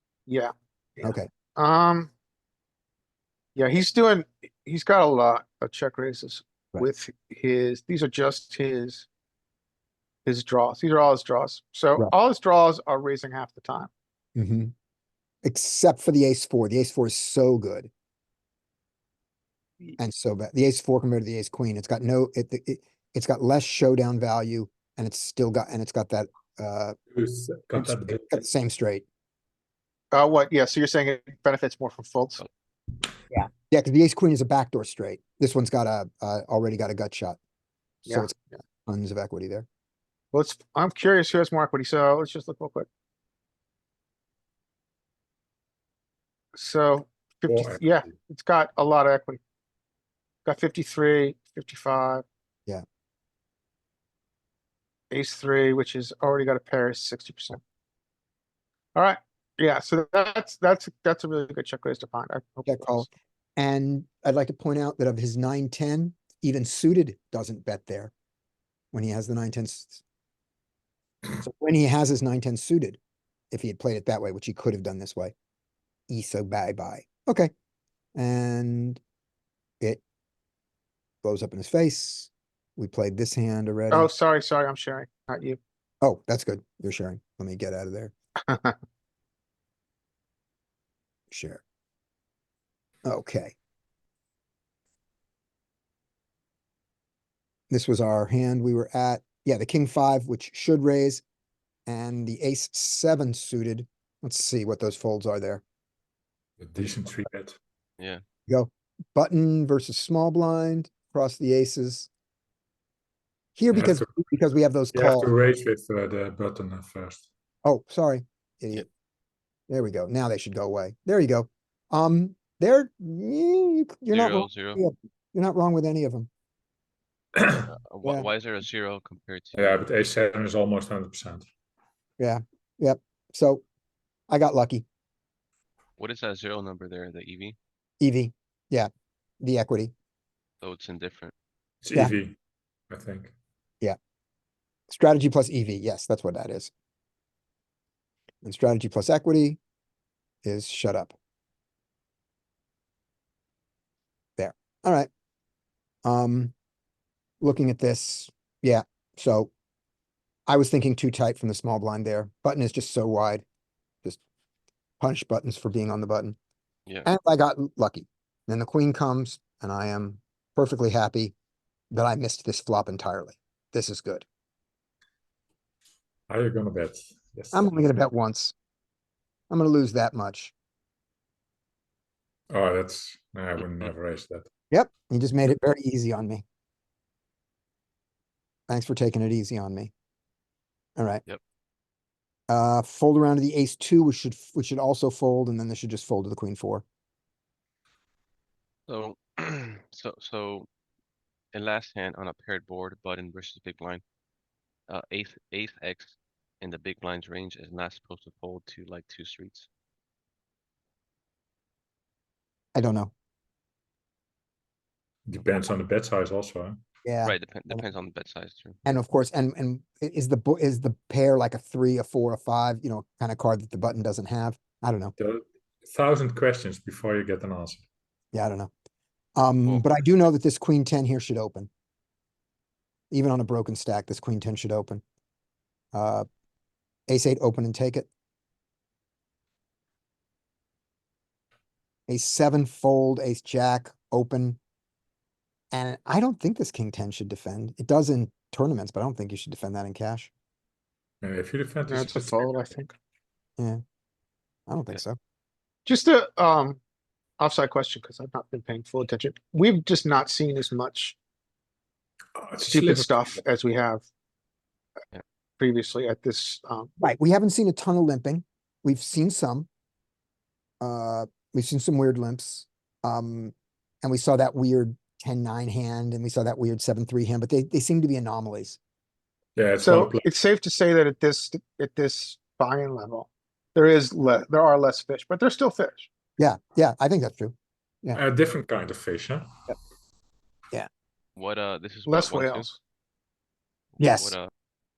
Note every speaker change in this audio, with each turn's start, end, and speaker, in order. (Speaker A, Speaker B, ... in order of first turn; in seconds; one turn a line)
Speaker A: 0.3-2.1
Speaker B: 1.0-1.3
Speaker A: 3.5-9.1
Speaker A: 10.2-13.9
Speaker B: 14.4-14.7
Speaker B: 15.4-17.9
Speaker B: 20.0-27.0
Speaker C: 27.1-28.4
Speaker B: 27.8-29.1
Speaker A: 30.1-32.4
Speaker B: 33.3-37.4
Speaker B: 38.1-39.6
Speaker A: 40.3-42.9
Speaker A: 46.5-49.4
Speaker C: 47.5-48.1
Speaker A: 50.5-52.2
Speaker A: 55.1-57.6
Speaker A: 59.0-63.1
Speaker B: 62.6-68.1
Speaker B: 68.9-70.0
Speaker B: 71.4-73.0
Speaker B: 73.5-75.3
Speaker B: 76.1-77.5
Speaker B: 78.2-79.0
Speaker B: 81.2-84.1
Speaker A: 83.9-85.6
Speaker B: 86.0-88.1
Speaker A: 88.5-88.8
Speaker B: 91.3-91.6
Speaker B: 93.0-93.5
Speaker B: 97.7-101.2
Speaker B: 101.9-105.6
Speaker C: 106.6-107.6
Speaker B: 108.5-112.1
Speaker B: 113.6-115.3
Speaker C: 113.7-114.1
Speaker C: 114.9-117.3
Speaker B: 117.6-118.9
Speaker B: 119.7-126.3
Speaker D: 124.1-124.8
Speaker C: 127.4-127.6
Speaker D: 127.6-129.9
Speaker C: 129.6-131.4
Speaker B: 132.2-133.7
Speaker B: 134.3-134.8
Speaker D: 136.0-137.6
Speaker B: 138.0-138.9
Speaker B: 139.4-139.9
Speaker D: 140.6-141.3
Speaker C: 141.8-142.4
Speaker C: 142.9-143.3
Speaker B: 144.9-146.7
Speaker B: 148.4-149.6
Speaker B: 150.4-151.1
Speaker B: 154.4-155.1
Speaker B: 156.0-156.5
Speaker B: 157.4-159.5
Speaker B: 160.5-163.4
Speaker B: 165.0-166.4
Speaker B: 167.1-171.3
Speaker B: 171.9-174.2
Speaker C: 176.3-177.8
Speaker B: 177.5-178.5
Speaker B: 179.5-180.5
Speaker C: 182.5-184.5
Speaker D: 183.6-183.9
Speaker B: 184.7-186.4
Speaker B: 188.7-189.9
Speaker B: 191.0-191.2
Speaker B: 192.5-196.8
Speaker D: 198.9-200.7
Speaker D: 201.5-204.0
Speaker D: 204.9-209.7
Speaker B: 212.8-213.1
Speaker C: 215.3-216.8
Speaker B: 217.1-217.8
Speaker D: 217.2-218.8
Speaker B: 218.8-225.1
Speaker C: 225.2-227.8
Speaker B: 228.3-228.7
Speaker B: 229.4-231.7
Speaker B: 233.1-235.0
Speaker B: 235.9-236.2
Speaker B: 237.1-238.1
Speaker B: 242.1-244.6
Speaker B: 245.7-250.3
Speaker C: 251.2-252.5
Speaker A: 251.9-252.9
Speaker B: 254.7-255.2
Speaker A: 255.9-256.8
Speaker A: 257.4-261.2
Speaker C: 262.4-263.3
Speaker A: 262.7-264.1
Speaker A: 265.6-266.9
Speaker B: 267.0-269.7
Speaker B: 270.8-278.8
Speaker C: 279.6-280.2
Speaker A: 279.8-286.1
Speaker B: 286.4-288.2
Speaker C: 288.1-289.5
Speaker D: 291.4-292.7
Speaker A: 292.1-292.8
Speaker D: 294.0-294.5
Speaker B: 294.0-294.3